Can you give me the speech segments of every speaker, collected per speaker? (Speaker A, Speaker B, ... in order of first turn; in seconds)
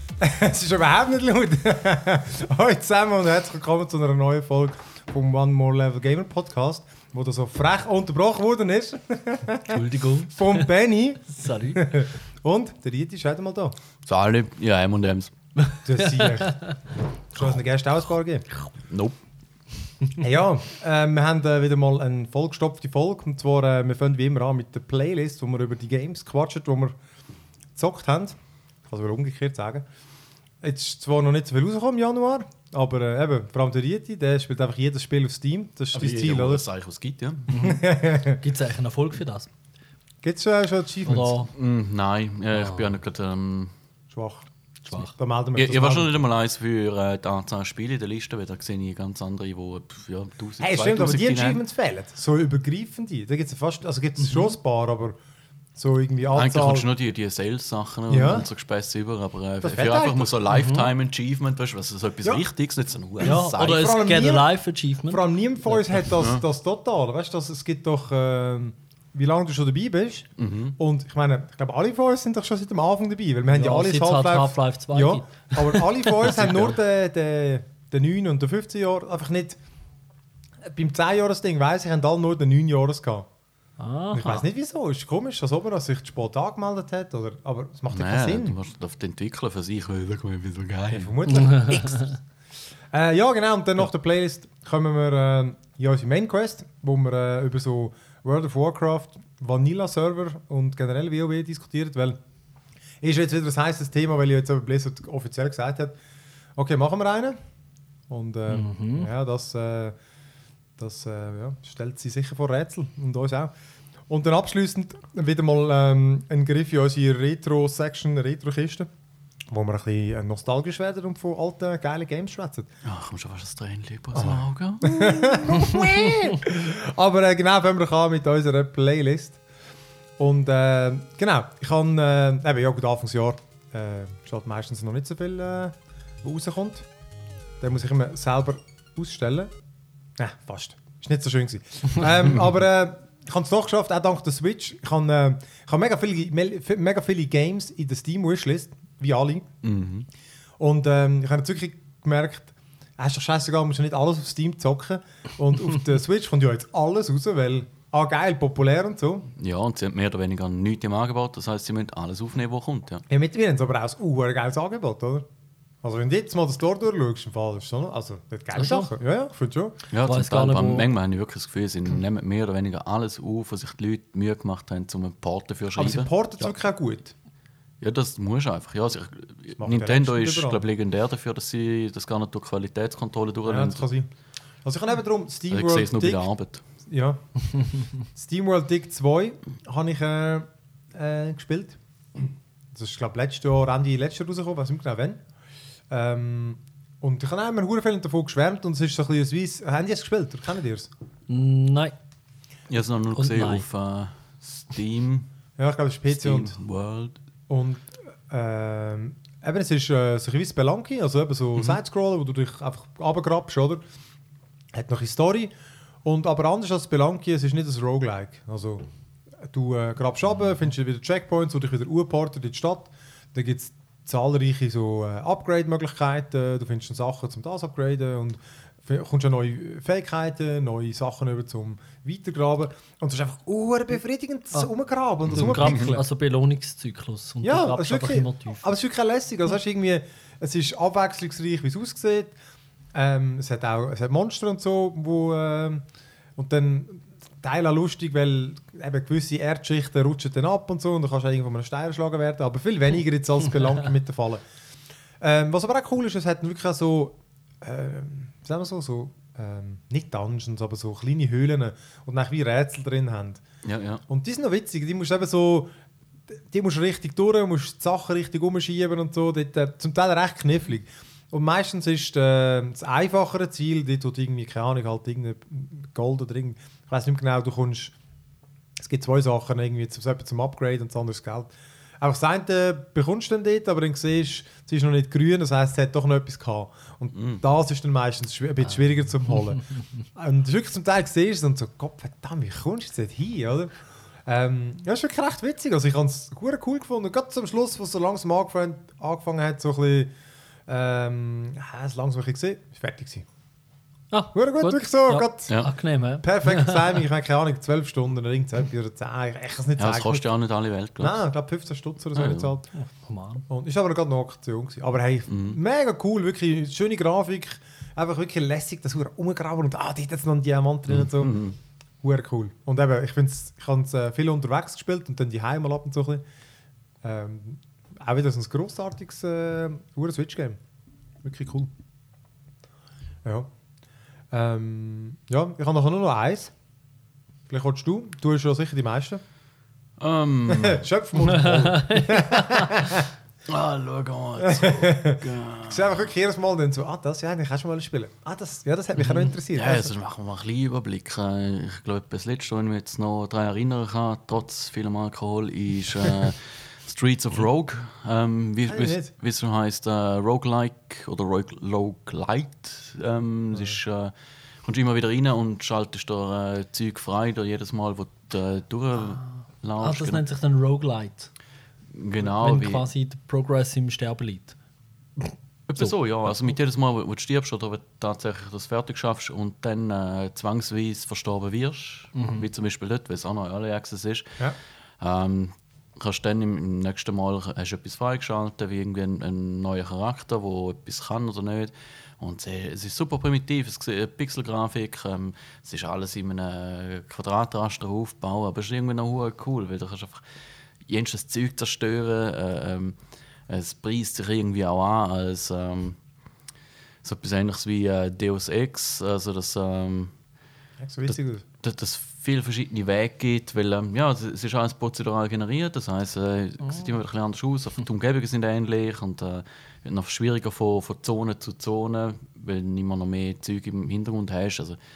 Speaker A: 0.2-13.8, 15.8-16.8, 17.3-18.5, 20.2-26.9, 27.8-29.9, 30.6-36.6, 37.6-38.4, 40.2-41.5, 44.1-46.1, 50.6-55.2, 55.8-56.9, 58.1-58.5, 59.6-60.3, 63.2-64.5, 65.1-79.6, 80.7-83.3, 84.1-88.6, 90.9-92.1, 92.9-102.2, 103.0-106.0, 106.6-107.4, 108.1-110.0, 110.8-113.5, 114.1-118.9, 119.5-122.7, 124.1-129.4, 130.2-136.9, 137.6-139.5, 140.2-149.5, 150.6-159.3, 163.1-165.3, 165.8-169.8, 175.8-177.1, 179.6-180.6, 183.5-184.1, 184.6-186.3, 186.8-195.2, 195.9-200.9, 205.6-206.6, 207.5-213.8, 214.7-215.5, 216.0-218.9, 219.4-236.0, 237.4-242.4, 242.9-254.4, 255.2-263.4, 264.1-265.7, 266.3-277.9, 278.8-289.6, 290.1-300.1, 300.7-303.3, 304.3-305.6, 306.2-310.3, 311.0-312.7, 313.5-321.4, 322.0-326.2, 327.0-330.6, 331.2-331.7, 333.2-333.5, 334.3-336.5, 337.5-339.2, 340.5-343.1, 344.4-349.9, 358.7-359.1, 410.8-411.4
Speaker B: 9.7-10.7, 11.3-11.9, 15.7-16.7, 37.5-39.5, 41.1-41.5, 60.5-60.9, 63.2-66.0, 73.5-75.9, 83.8-84.5, 91.3-92.2, 108.5-109.1, 168.5-168.9, 170.0-170.9, 201.3-201.9, 203.2-203.7, 235.3-238.7, 304.1-306.9, 312.7-313.4, 341.2-342.9, 369.8-371.3, 372.3-374.6, 375.2-375.9, 382.1-382.5
Speaker C: 14.1-15.3, 18.9-19.2, 35.9-37.6, 41.5-43.7, 45.6-51.6, 56.4-63.9, 66.2-66.4, 70.4-70.8, 76.2-76.8, 87.9-91.1, 122.8-125.6, 149.6-150.1, 159.4-163.0, 169.9-176.5, 177.8-183.8, 185.5-186.6, 202.7-205.3, 206.1-207.2, 235.3-236.0, 263.6-264.0, 287.1-287.4, 309.8-311.2, 312.1-312.5, 315.3-315.6, 320.9-321.6, 340.0-340.9, 343.5-346.0, 349.1-364.1, 364.6-370.2, 371.9-372.9, 375.7-384.4, 385.0-400.2, 400.9-403.0, 403.5-406.0, 407.0-410.1, 411.1-424.8